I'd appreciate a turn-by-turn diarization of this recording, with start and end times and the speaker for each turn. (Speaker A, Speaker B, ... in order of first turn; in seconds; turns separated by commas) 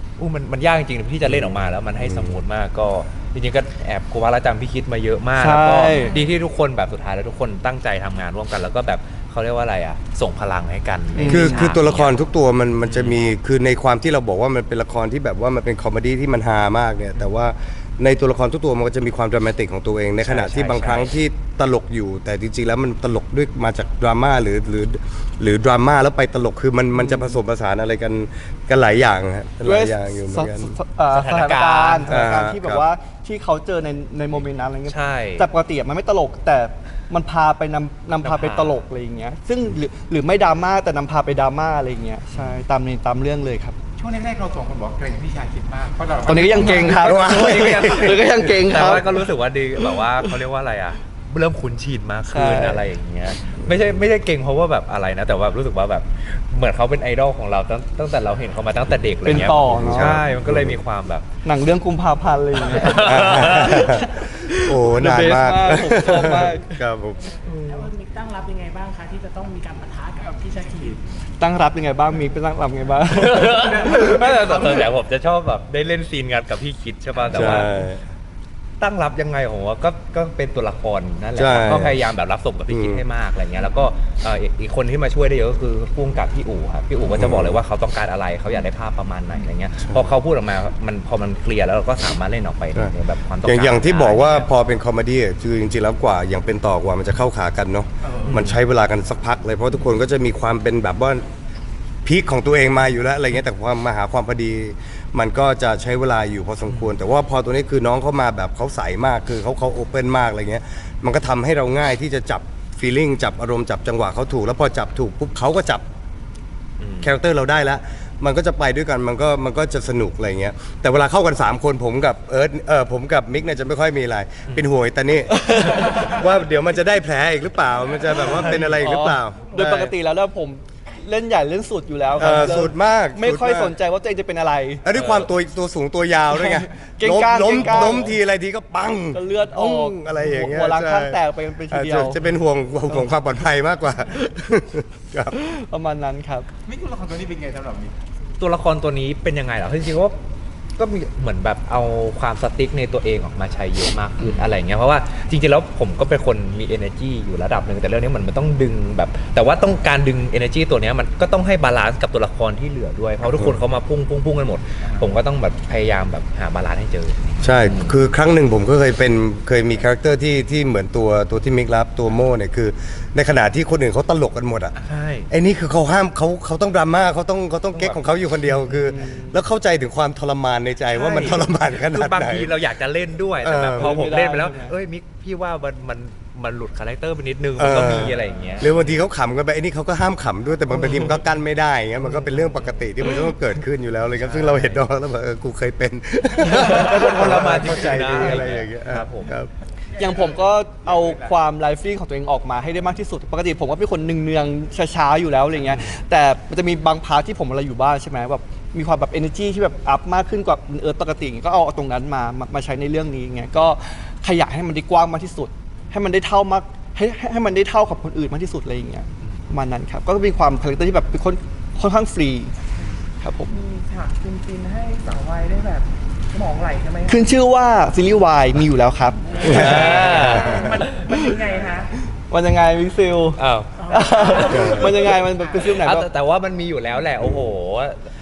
Speaker A: 0.2-12.1, Speaker B: 1.2-2.4, Speaker C: 5.3-6.1, Speaker C: 11.1-11.7, Speaker B: 11.2-30.7, Speaker A: 12.8-13.2, Speaker A: 20.2-21.1, Speaker C: 29.6-43.8, Speaker A: 31.1-32.1, Speaker B: 32.1-32.9, Speaker A: 34.9-35.5, Speaker A: 38.2-38.8, Speaker A: 42.3-42.6, Speaker D: 44.0-47.2, Speaker C: 46.2-49.3, Speaker B: 47.0-48.5, Speaker A: 47.2-61.2, Speaker C: 49.8-50.3, Speaker C: 52.3-52.9, Speaker C: 59.2-60.2, Speaker B: 59.7-60.8, Speaker C: 61.4-66.8, Speaker A: 62.8-63.8, Speaker B: 63.0-67.4, Speaker A: 67.5-67.9, Speaker E: 67.7-71.0, Speaker C: 71.4-74.0, Speaker A: 73.1-77.7, Speaker D: 73.5-74.9, Speaker B: 77.3-78.0, Speaker A: 78.8-94.5, Speaker B: 81.3-82.0, Speaker B: 82.7-83.0, Speaker B: 87.1-87.6, Speaker B: 93.4-101.2, Speaker A: 98.3-98.5, Speaker B: 102.0-115.8, Speaker A: 106.7-106.9, Speaker A: 116.8-117.1, Speaker B: 117.0-129.9, Speaker C: 125.3-126.0, Speaker A: 128.2-128.8, Speaker C: 128.4-134.8, Speaker B: 132.2-133.7, Speaker B: 134.8-145.3, Speaker A: 134.9-135.3, Speaker C: 136.3-138.1, Speaker C: 139.1-142.2, Speaker C: 145.3-146.5, Speaker D: 146.7-147.9, Speaker A: 148.4-150.2, Speaker A: 150.8-168.0, Speaker B: 167.4-174.8, Speaker A: 174.8-175.3, Speaker B: 175.3-182.5, Speaker A: 177.7-178.1, Speaker C: 178.9-179.3, Speaker A: 180.9-188.8, Speaker B: 183.4-184.0, Speaker C: 183.8-184.8, Speaker B: 187.6-199.5, Speaker A: 192.4-192.7, Speaker A: 194.2-194.8, Speaker A: 196.4-199.3, Speaker C: 200.0-222.5, Speaker D: 200.0-201.3, Speaker C: 223.2-223.6, Speaker E: 223.5-227.2, Speaker C: 227.1-231.2, Speaker B: 229.4-230.8, Speaker A: 229.4-230.7, Speaker E: 230.5-231.9, Speaker C: 232.3-236.1, Speaker A: 233.4-234.6, Speaker E: 233.8-234.9, Speaker A: 235.6-238.0